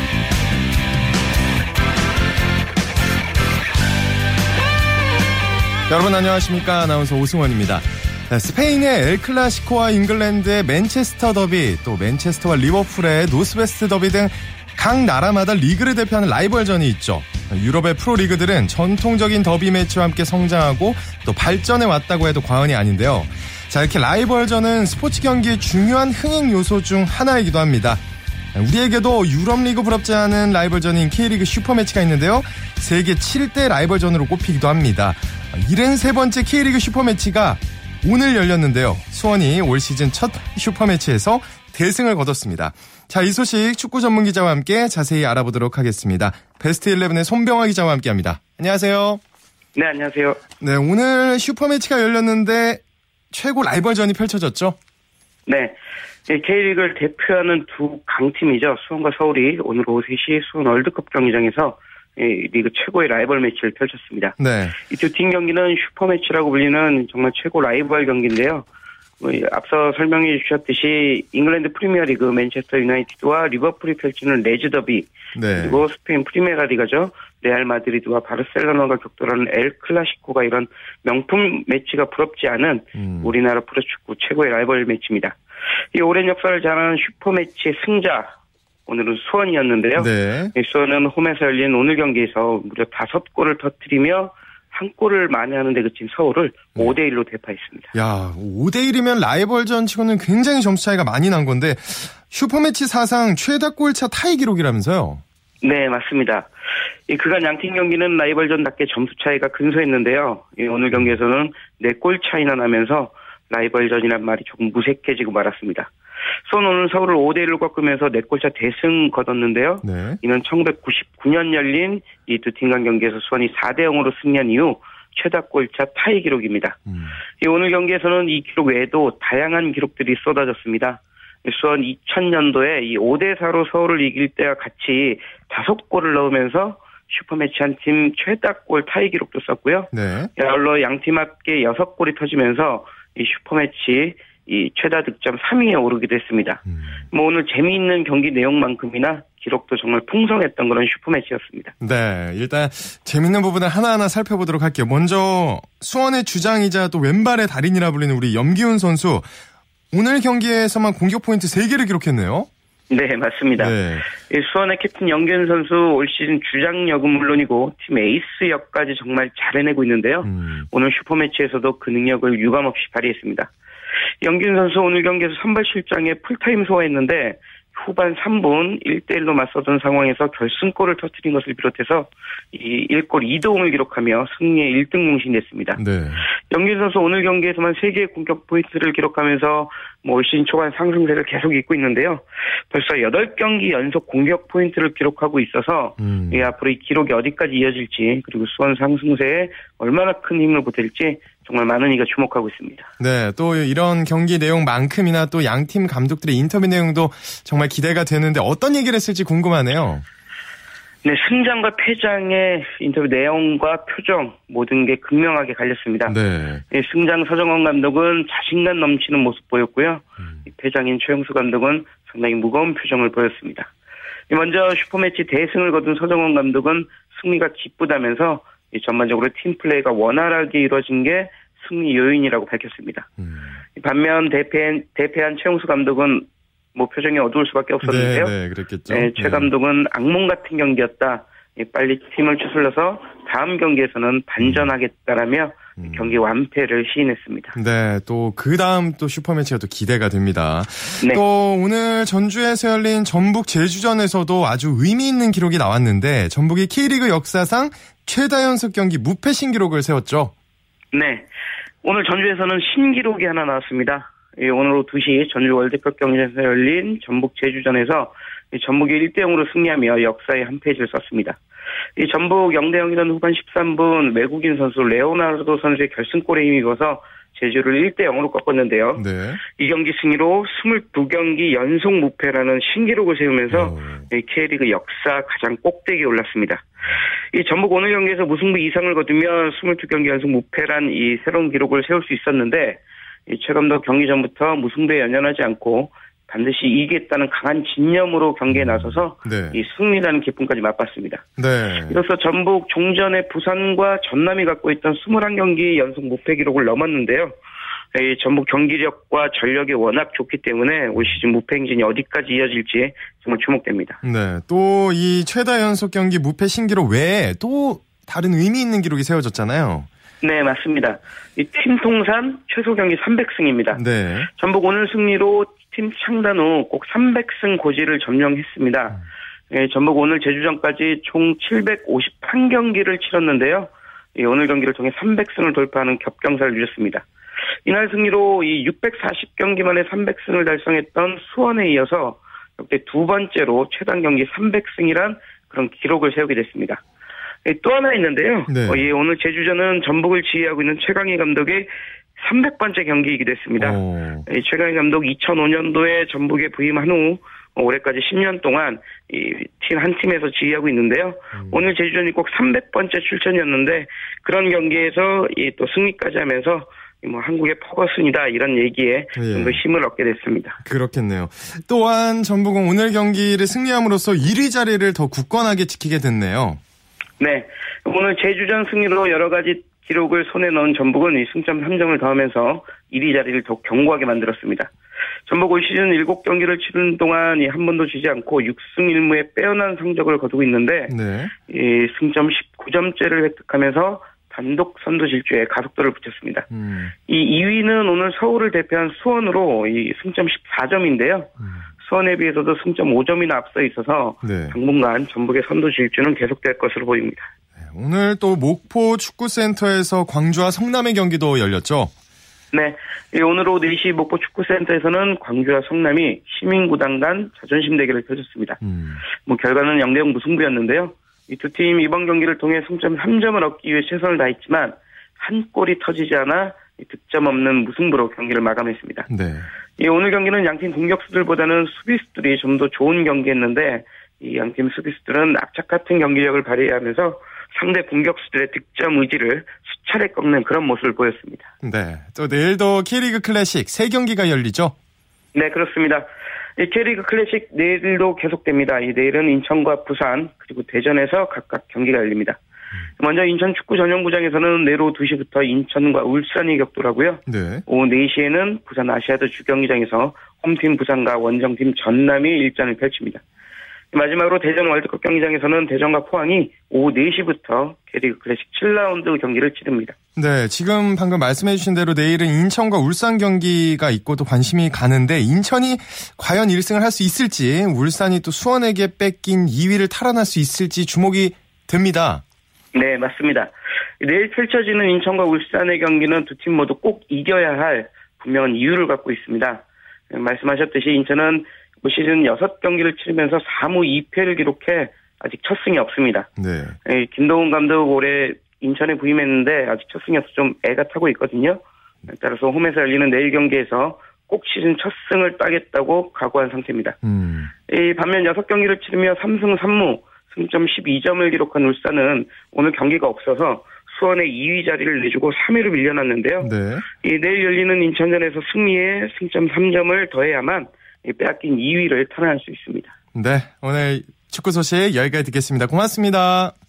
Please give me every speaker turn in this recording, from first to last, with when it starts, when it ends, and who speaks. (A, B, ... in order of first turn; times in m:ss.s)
0:05.9-0:28.0 A
0:28.5-0:49.2 A
0:49.7-0:50.4 B
0:50.6-0:54.8 A
0:55.5-0:55.8 B
0:56.3-1:04.3 B
1:04.4-1:04.8 A
1:04.9-1:08.6 B
1:09.2-1:25.4 B
1:15.3-1:15.8 A
1:23.0-1:23.3 A
1:25.9-1:28.3 B
1:28.9-1:37.9 B
1:30.0-1:30.5 A
1:37.9-1:45.2 A
1:45.6-1:46.5 B
1:47.1-1:55.9 B
1:56.5-2:06.8 B
1:59.8-2:00.2 A
2:06.9-2:07.2 A
2:07.4-2:31.7 B
2:19.9-2:20.3 A
2:26.7-2:27.0 A
2:31.8-2:39.3 A
2:39.9-2:42.5 A
2:42.9-2:53.5 B
2:43.6-2:44.0 A
2:50.2-2:50.6 A
2:54.2-3:05.8 B
3:05.8-3:06.2 A
3:06.5-3:22.9 B
3:16.0-3:16.5 A
3:23.0-3:30.0 A
3:31.0-3:36.2 B
3:36.0-3:36.6 A
3:36.7-3:43.7 B
3:44.3-3:53.1 B
3:53.2-3:53.6 A
3:53.8-3:58.3 B
3:57.8-3:59.5 A
3:58.9-4:07.5 B
4:04.4-4:04.7 A
4:05.8-4:06.1 A
4:07.5-4:20.3 A
4:20.9-4:21.3 B
4:21.8-4:31.4 B
4:32.0-4:46.6 B
4:39.0-4:39.4 A
4:43.5-4:44.0 A
4:47.3-5:01.3 B
4:58.5-4:59.6 A
5:01.4-5:02.0 A
5:01.9-5:07.4 B
5:07.9-5:14.0 B
5:14.0-5:19.9 A
5:20.2-5:23.8 B
5:23.7-5:24.3 A
5:24.4-5:29.0 B
5:29.5-5:37.0 B
5:37.6-5:46.8 B
5:47.4-6:10.6 B
5:48.5-5:48.8 A
5:53.6-5:54.2 A
6:01.4-6:01.6 A
6:09.2-6:09.6 A
6:10.6-6:16.6 A
6:17.2-6:24.7 B
6:25.3-6:30.9 B
6:30.9-6:31.3 A
6:31.5-6:36.5 B
6:36.5-6:36.9 A
6:37.1-6:41.3 B
6:41.4-6:41.6 A
6:41.8-6:47.3 B
6:44.2-6:44.6 A
6:47.6-6:51.9 A
6:52.5-6:58.6 B
6:58.6-6:59.0 A
6:59.2-7:09.0 B
7:09.1-7:09.5 A
7:09.8-7:21.5 B
7:21.6-7:24.7 A
7:25.3-7:26.1 B
7:26.6-7:32.4 B
7:33.0-7:43.2 B
7:37.3-7:37.6 A
7:43.9-7:49.9 B
7:50.2-8:02.2 A
8:02.7-8:16.3 B
8:16.4-8:16.8 A
8:16.8-8:27.0 B
8:27.0-8:27.5 A
8:27.7-8:36.5 B
8:36.4-8:36.8 A
8:37.0-8:42.9 B
8:43.1-8:46.5 A